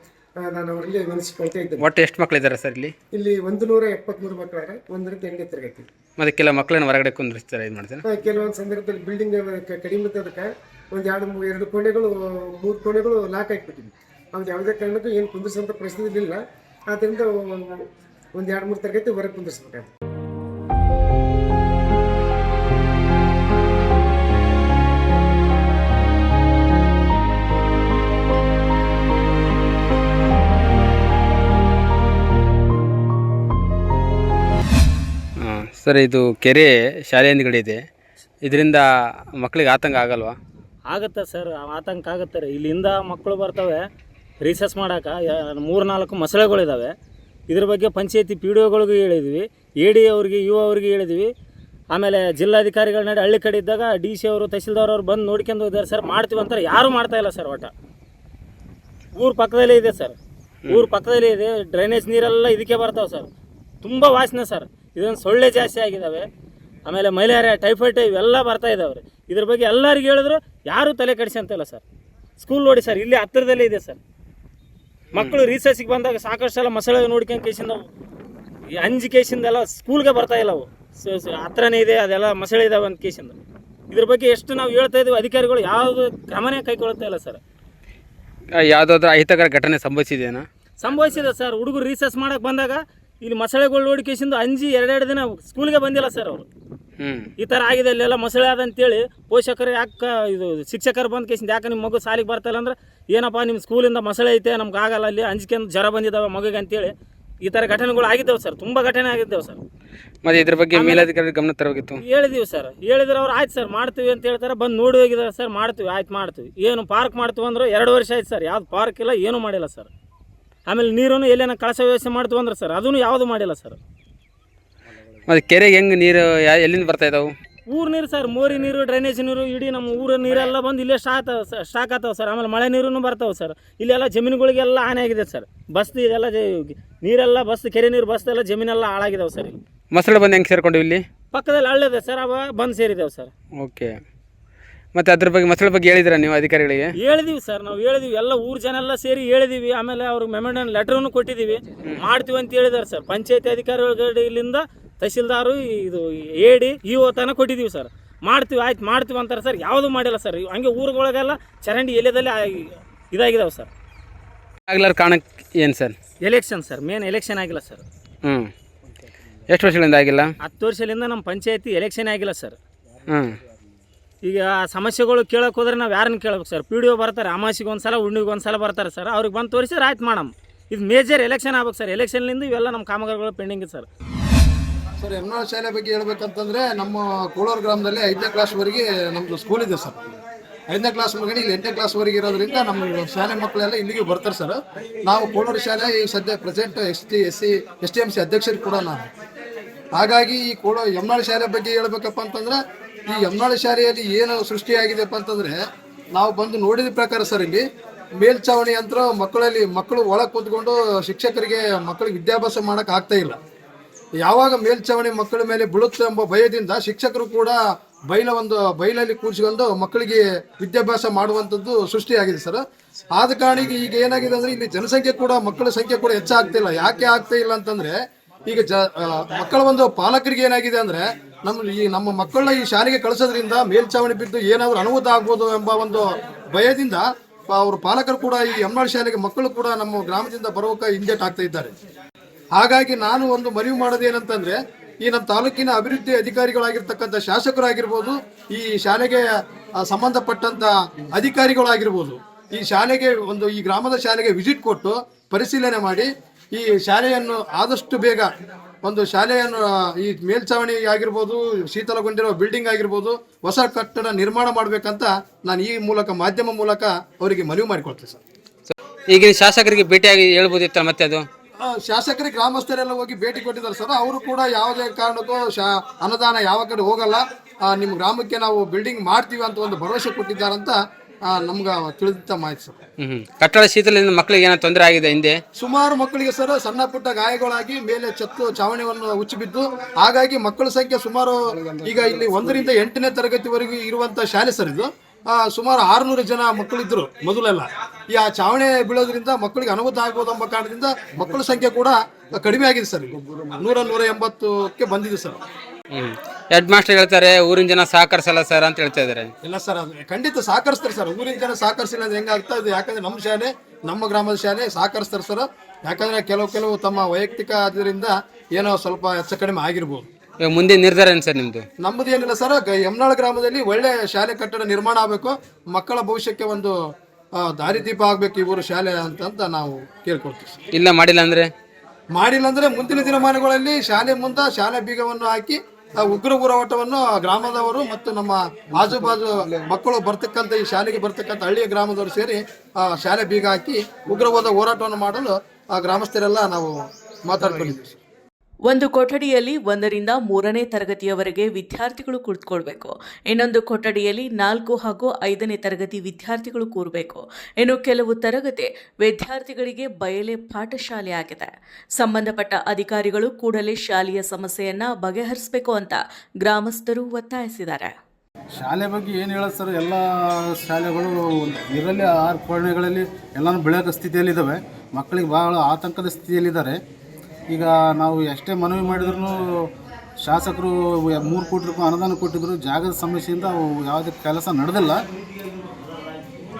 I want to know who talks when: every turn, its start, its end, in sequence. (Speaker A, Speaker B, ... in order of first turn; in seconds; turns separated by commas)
Speaker A: 0.4-1.9, Speaker B: 1.8-2.9, Speaker A: 3.1-5.9, Speaker B: 6.2-8.0, Speaker A: 8.0-16.4, Speaker A: 16.9-17.8, Speaker A: 18.4-19.9, Speaker B: 35.4-37.8, Speaker B: 38.4-38.8, Speaker B: 39.4-40.4, Speaker C: 40.9-43.8, Speaker C: 44.4-46.9, Speaker C: 47.5-51.3, Speaker C: 51.9-57.7, Speaker C: 59.1-60.1, Speaker C: 60.7-63.3, Speaker C: 63.8-66.3, Speaker C: 66.8-71.8, Speaker C: 72.4-74.0, Speaker C: 75.1-77.8, Speaker C: 78.8-83.3, Speaker C: 83.9-87.4, Speaker B: 88.6-90.4, Speaker C: 90.8-96.4, Speaker B: 97.0-97.3, Speaker C: 97.4-109.6, Speaker B: 110.2-112.0, Speaker C: 110.7-111.1, Speaker C: 112.0-119.9, Speaker C: 120.7-123.8, Speaker B: 125.3-127.3, Speaker C: 127.7-139.6, Speaker B: 139.9-141.0, Speaker C: 141.3-143.3, Speaker B: 143.6-143.9, Speaker B: 144.9-146.9, Speaker C: 146.9-163.7, Speaker B: 164.7-165.9, Speaker C: 166.2-167.8, Speaker B: 168.2-168.5, Speaker B: 169.5-170.3, Speaker C: 170.4-172.6, Speaker B: 173.1-173.4, Speaker C: 174.2-183.9, Speaker D: 185.0-190.2, Speaker D: 190.7-199.1, Speaker D: 199.9-202.6, Speaker D: 203.1-205.6, Speaker D: 206.1-207.6, Speaker D: 208.2-213.4, Speaker D: 214.2-217.6, Speaker D: 218.1-222.6, Speaker D: 223.1-241.7, Speaker D: 242.6-249.3, Speaker D: 249.8-258.3, Speaker D: 258.8-268.2, Speaker B: 268.7-271.2, Speaker D: 271.6-282.8, Speaker B: 283.0-285.4, Speaker D: 285.6-305.4, Speaker B: 305.9-309.3, Speaker D: 309.4-320.1, Speaker B: 320.4-321.6, Speaker D: 321.8-326.7, Speaker D: 327.3-330.6, Speaker B: 330.7-331.5, Speaker D: 332.1-347.9, Speaker E: 348.7-367.9, Speaker F: 368.6-376.8, Speaker F: 377.5-379.7, Speaker F: 380.2-385.0